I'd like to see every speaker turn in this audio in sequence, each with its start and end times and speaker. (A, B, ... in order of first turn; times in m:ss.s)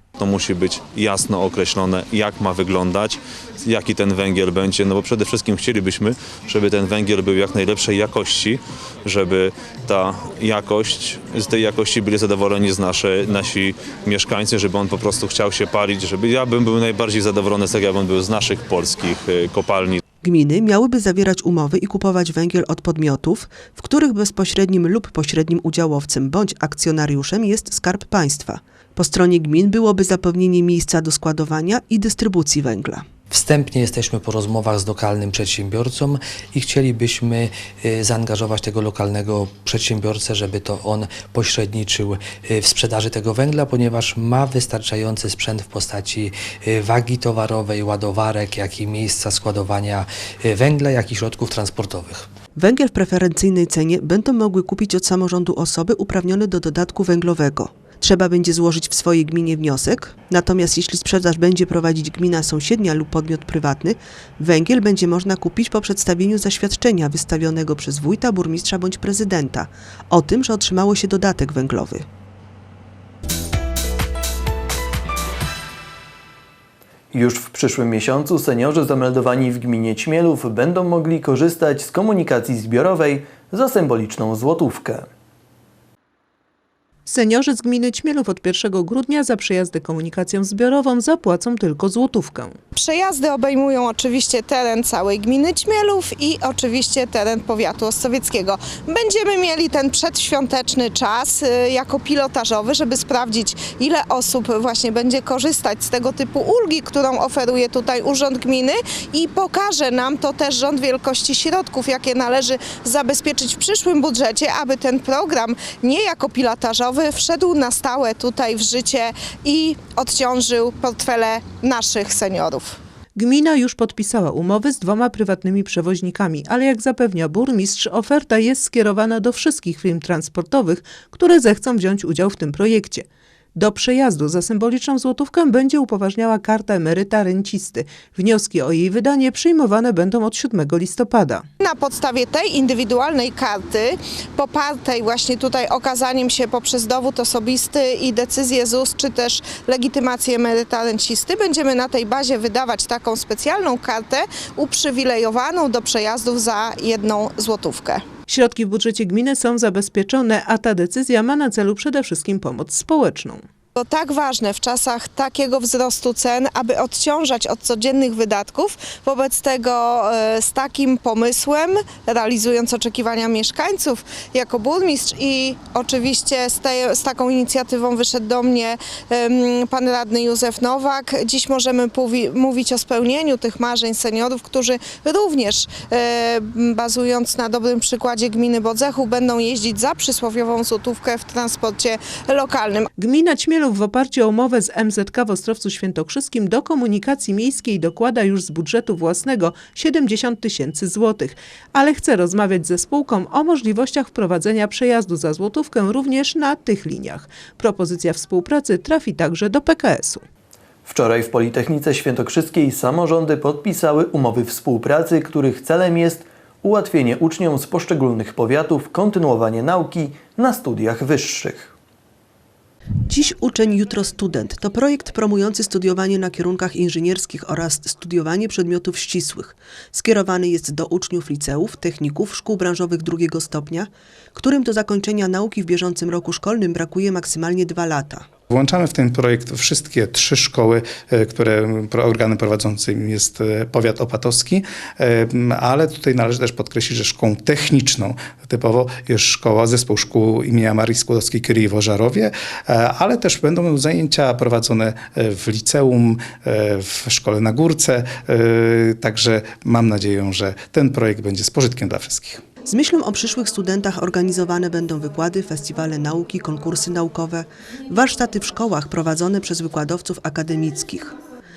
0:00.2-0:20.0 A
0:20.2-0:33.0 B
0:33.3-0:52.3 C
0:52.6-1:12.0 B
1:17.1-1:25.1 D
1:27.1-1:32.5 E
1:32.8-2:02.8 F
2:03.2-2:13.0 E
2:13.6-2:21.3 E
2:21.6-2:38.0 F
2:38.3-2:43.4 E
2:43.8-3:12.9 F
3:13.0-3:30.2 E
3:30.8-3:41.7 D
3:43.1-3:58.3 B
3:58.5-4:22.4 G
4:22.6-4:31.1 B